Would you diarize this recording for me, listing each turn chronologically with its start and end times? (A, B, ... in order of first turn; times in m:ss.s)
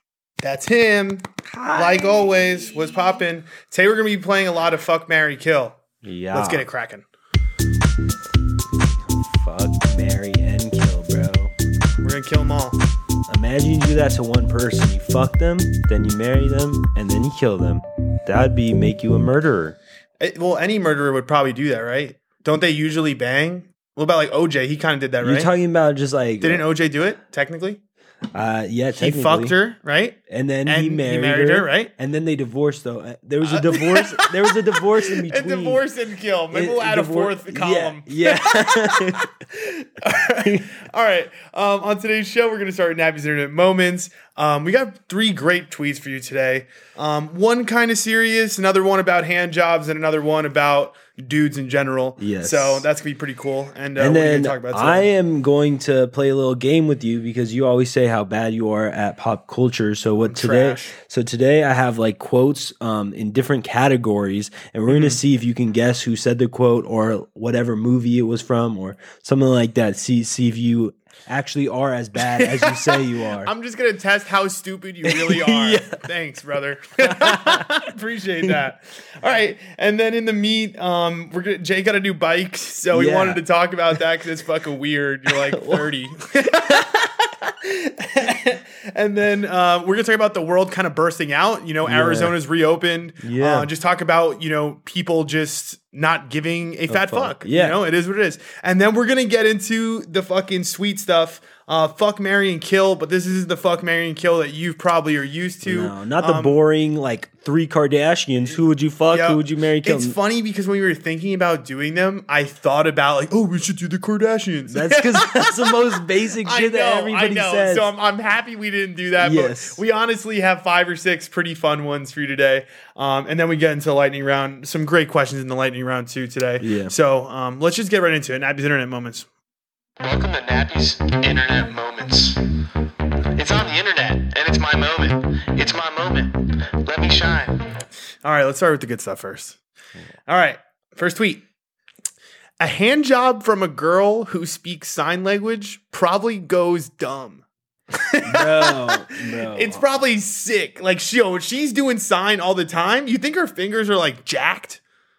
0:00.4-0:05.8 A
0:01.5-0:02.4 B
0:06.0-0:06.6 B
0:06.3-0:07.0 A
0:09.2-0:11.5 B
0:12.0-0:12.8 A
0:13.3-0:19.8 B
0:20.2-0:25.5 A
0:25.2-0:26.6 B
0:26.4-0:27.8 A
0:28.3-0:29.6 B
0:28.9-0:31.9 A
0:30.3-0:35.8 B
0:33.4-0:55.1 A
0:36.5-0:39.3 B
0:52.2-0:52.8 B
0:54.0-1:13.5 B
1:00.2-1:00.9 A
1:04.9-1:05.2 A
1:12.3-1:46.6 A
1:15.0-1:16.0 B
1:17.0-1:17.7 B
1:22.9-1:23.4 B
1:25.3-1:25.9 B
1:31.8-1:32.4 B
1:33.2-1:33.7 B
1:36.9-1:37.8 B
1:45.6-1:50.1 B
1:49.1-1:55.9 A
1:54.7-1:57.9 B
1:56.4-2:09.3 A
1:59.2-1:59.8 B
2:06.6-2:06.9 B
2:10.0-2:12.4 C
2:13.4-2:17.7 C
2:18.2-2:19.6 A
2:20.3-2:21.4 A
2:22.6-2:27.4 A
2:27.9-2:34.8 A
2:28.2-2:29.8 B